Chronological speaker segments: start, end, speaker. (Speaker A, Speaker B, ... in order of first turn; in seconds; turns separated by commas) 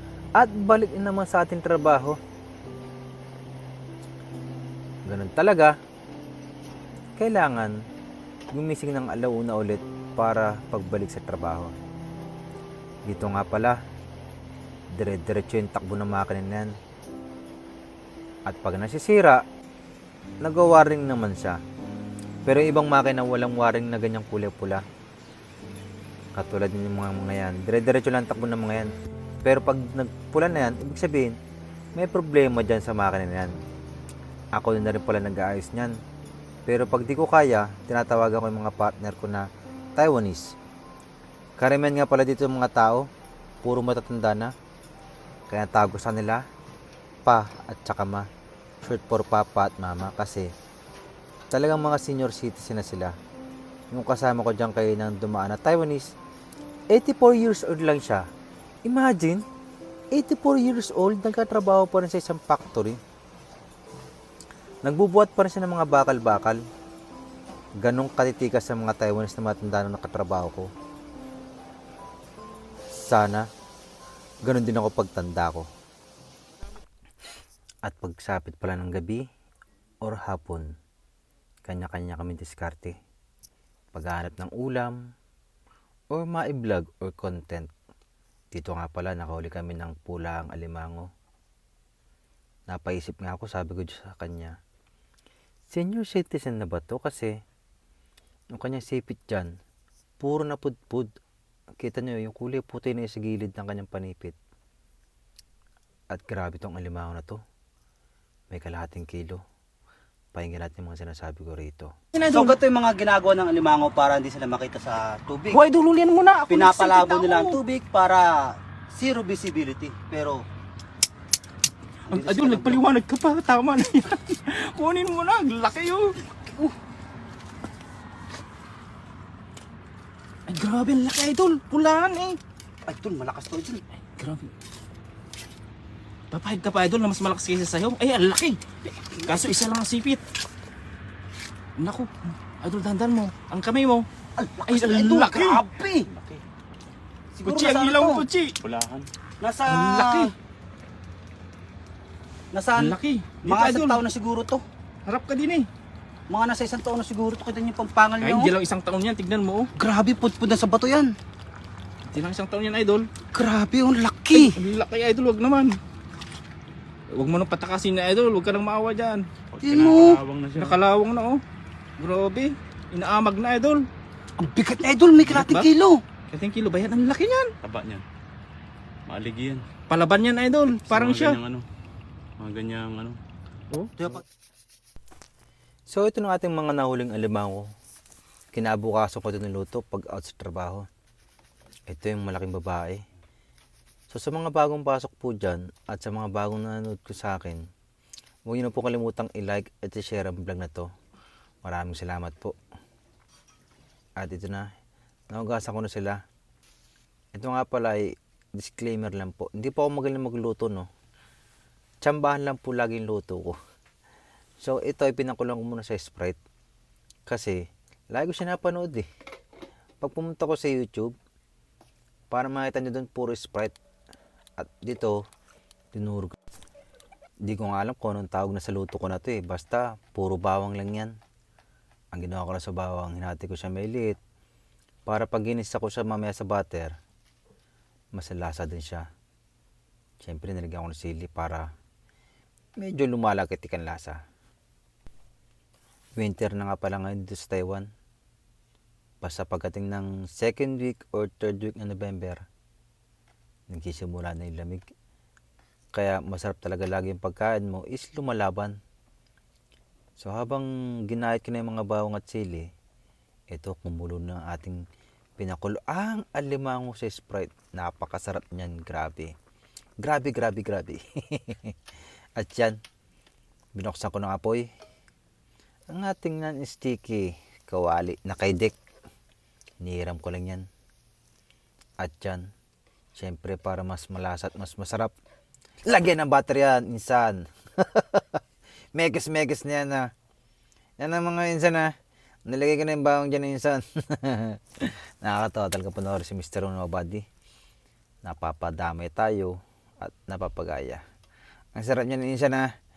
Speaker A: 0.3-2.2, Speaker A: 5.1-5.7, Speaker A: 7.2-7.7, Speaker A: 8.5-11.7, Speaker A: 13.1-13.8, Speaker A: 14.9-16.7, Speaker A: 18.5-19.4, Speaker A: 20.4-21.6, Speaker A: 22.4-24.8, Speaker A: 26.4-28.9, Speaker A: 29.4-31.4, Speaker A: 31.9-33.5, Speaker A: 34.5-35.9, Speaker A: 36.7-39.4, Speaker A: 40.0-40.5, Speaker A: 41.6-43.0, Speaker A: 43.6-44.5, Speaker A: 45.5-46.4, Speaker A: 47.2-48.3, Speaker A: 48.8-50.5, Speaker A: 51.5-53.1, Speaker A: 53.9-56.1, Speaker A: 56.9-58.2, Speaker A: 58.8-59.4, Speaker A: 60.1-63.0, Speaker A: 64.8-66.6, Speaker A: 67.8-70.7, Speaker A: 72.9-73.4, Speaker A: 74.4-75.7, Speaker A: 77.8-79.2, Speaker A: 80.0-80.7, Speaker A: 81.7-82.9, Speaker A: 83.9-85.0, Speaker A: 86.1-87.7, Speaker A: 88.5-91.1, Speaker A: 92.7-94.5, Speaker A: 95.7-97.3, Speaker A: 98.5-99.5, Speaker A: 100.2-101.1, Speaker A: 101.8-104.3, Speaker A: 106.1-107.4, Speaker A: 108.5-109.4, Speaker A: 110.3-111.9, Speaker B: 112.1-112.6, Speaker C: 112.3-115.6, Speaker B: 115.5-117.6, Speaker C: 116.5-120.3, Speaker B: 122.0-126.2, Speaker C: 122.1-122.8, Speaker B: 130.5-132.4, Speaker C: 132.9-133.8, Speaker B: 134.2-134.5, Speaker B: 136.3-140.2, Speaker C: 139.2-139.5, Speaker B: 141.8-144.1, Speaker C: 144.4-146.1, Speaker B: 144.7-145.7, Speaker D: 146.1-146.4, Speaker C: 147.3-148.3, Speaker B: 147.4-148.6, Speaker D: 148.6-149.1, Speaker C: 149.4-150.3, Speaker B: 149.7-150.3, Speaker C: 152.5-154.6, Speaker B: 152.7-154.0, Speaker B: 155.1-155.7, Speaker C: 156.3-158.5, Speaker B: 158.2-159.7, Speaker C: 159.8-161.1, Speaker B: 162.1-163.1, Speaker C: 163.3-164.6, Speaker B: 164.3-165.8, Speaker B: 167.1-169.3, Speaker D: 169.5-170.8, Speaker C: 169.6-170.2, Speaker B: 170.6-171.4, Speaker B: 172.0-173.9, Speaker C: 174.4-176.0, Speaker B: 175.2-175.7, Speaker B: 176.3-177.5, Speaker D: 177.6-178.0, Speaker D: 179.1-179.7, Speaker B: 179.9-181.4, Speaker D: 180.8-181.7, Speaker D: 182.4-183.2, Speaker C: 184.0-184.2, Speaker A: 185.9-187.7, Speaker A: 188.5-190.8, Speaker A: 191.9-193.0, Speaker A: 194.1-197.7, Speaker A: 198.5-200.9, Speaker A: 201.6-202.5, Speaker A: 204.2-204.7, Speaker A: 205.3-206.2, Speaker A: 207.3-210.9, Speaker A: 212.0-213.6, Speaker A: 214.6-216.4, Speaker A: 217.3-219.1, Speaker A: 220.0-221.1, Speaker A: 222.3-223.7, Speaker A: 224.6-225.2, Speaker A: 225.9-226.3, Speaker A: 227.4-231.1, Speaker A: 232.1-234.2, Speaker A: 235.1-236.9, Speaker A: 238.1-239.0, Speaker A: 240.2-241.7, Speaker A: 242.8-244.2, Speaker A: 246.2-247.8, Speaker A: 249.2-252.4, Speaker A: 253.7-254.8, Speaker A: 255.9-258.7, Speaker A: 260.2-262.7, Speaker A: 263.5-264.8, Speaker A: 265.4-269.3, Speaker A: 270.0-271.7, Speaker A: 272.4-272.8, Speaker A: 273.7-274.7, Speaker A: 275.9-278.7, Speaker A: 279.8-280.6, Speaker A: 282.0-282.4, Speaker A: 283.1-285.1, Speaker A: 285.9-288.4, Speaker A: 288.9-290.1, Speaker A: 291.0-291.9, Speaker A: 292.5-297.2, Speaker A: 298.2-301.0, Speaker A: 301.7-302.7